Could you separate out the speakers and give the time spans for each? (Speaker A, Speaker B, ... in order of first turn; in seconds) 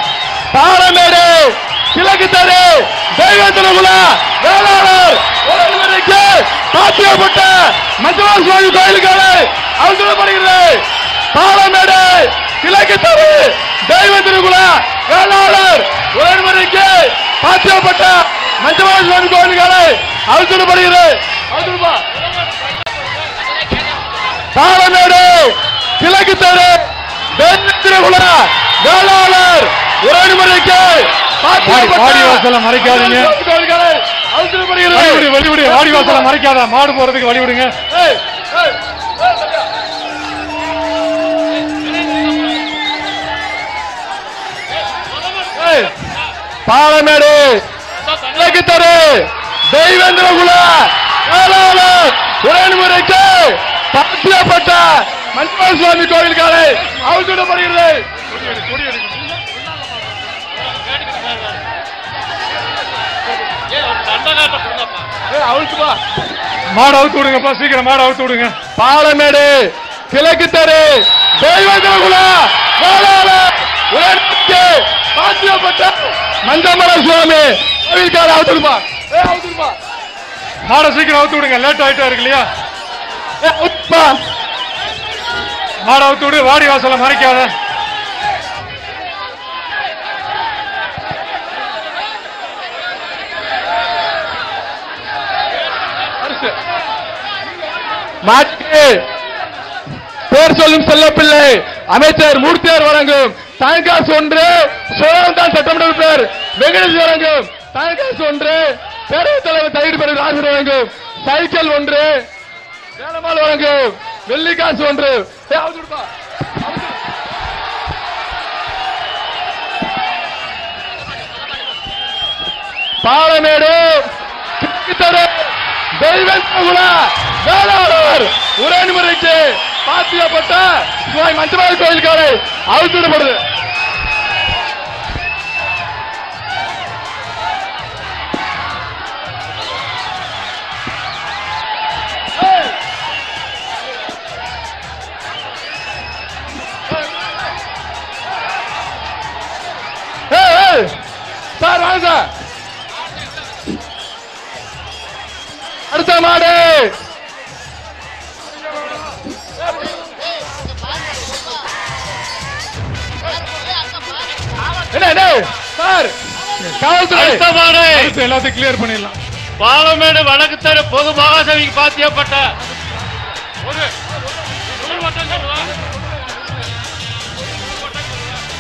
Speaker A: 0.5-22.0, 24.6-36.3, 37.9-38.8, 45.6-45.9, 46.7-47.6, 48.3-58.1, 65.3-66.0, 68.8-69.6, 70.1-79.8, 83.4-84.2, 96.2-96.6, 98.2-99.1, 100.3-112.1, 113.0-116.1, 123.0-124.1, 124.6-133.4, 150.3-150.9, 151.6-152.3, 155.9-156.9, 164.9-166.2, 166.8-167.4
Speaker B: 31.6-33.4, 34.9-37.8, 58.3-59.2, 66.7-68.5, 80.7-82.5, 85.8-87.5, 167.8-169.2
Speaker C: 42.1-42.6, 45.2-45.5, 60.9-61.6, 63.7-65.1, 167.1-168.1, 169.6-172.5, 174.8-175.7